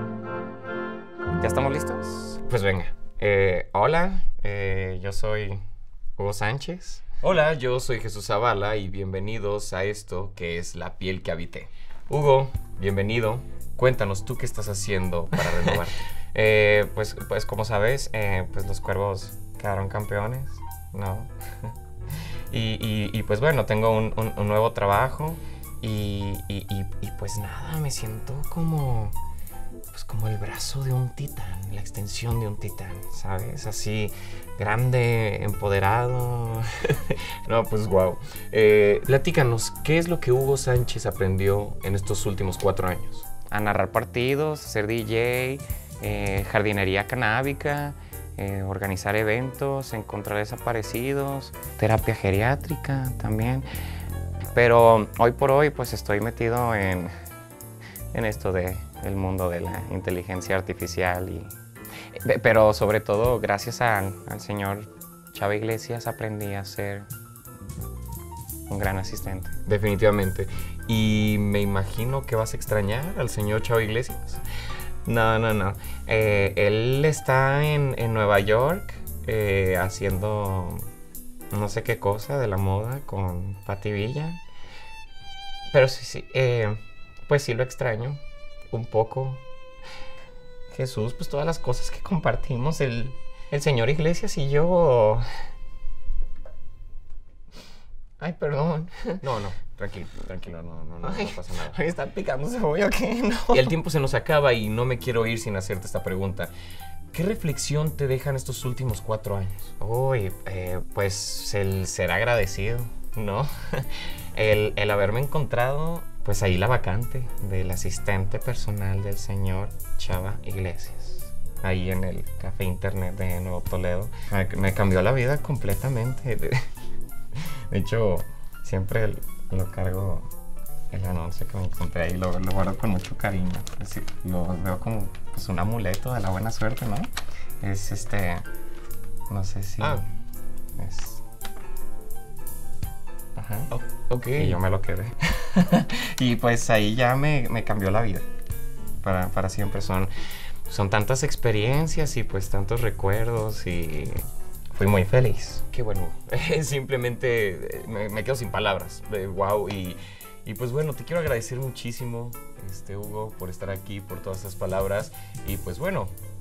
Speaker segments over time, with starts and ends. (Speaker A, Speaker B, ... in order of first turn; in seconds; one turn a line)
Speaker A: 1.4-5.6
Speaker A: 6.2-7.2
Speaker B: 7.2-15.9
Speaker A: 15.4-21.7
Speaker A: 22.5-29.1
Speaker A: 29.9-37.2
Speaker B: 37.5-43.3
Speaker A: 43.4-53.7
Speaker A: 54.5-57.1
Speaker A: 58.1-61.5
Speaker A: 62.1-67.1
Speaker A: 68.7-69.7
Speaker B: 69.7-74.4
Speaker A: 75.0-80.8
Speaker A: 81.5-84.4
Speaker A: 85.7-89.4
Speaker A: 90.7-95.2
Speaker A: 98.2-99.3
Speaker B: 99.2-101.7
Speaker A: 101.0-103.8
Speaker B: 103.5-106.5
Speaker B: 107.1-109.7
Speaker A: 109.7-126.7
Speaker A: 127.3-130.3
Speaker A: 130.9-137.1
Speaker A: 137.6-138.4
Speaker A: 139.3-140.0
Speaker A: 140.8-141.2
Speaker A: 143.3-143.7
Speaker B: 143.7-144.6
Speaker A: 144.3-148.3
Speaker A: 149.0-150.1
Speaker A: 150.7-155.7
Speaker B: 155.7-166.1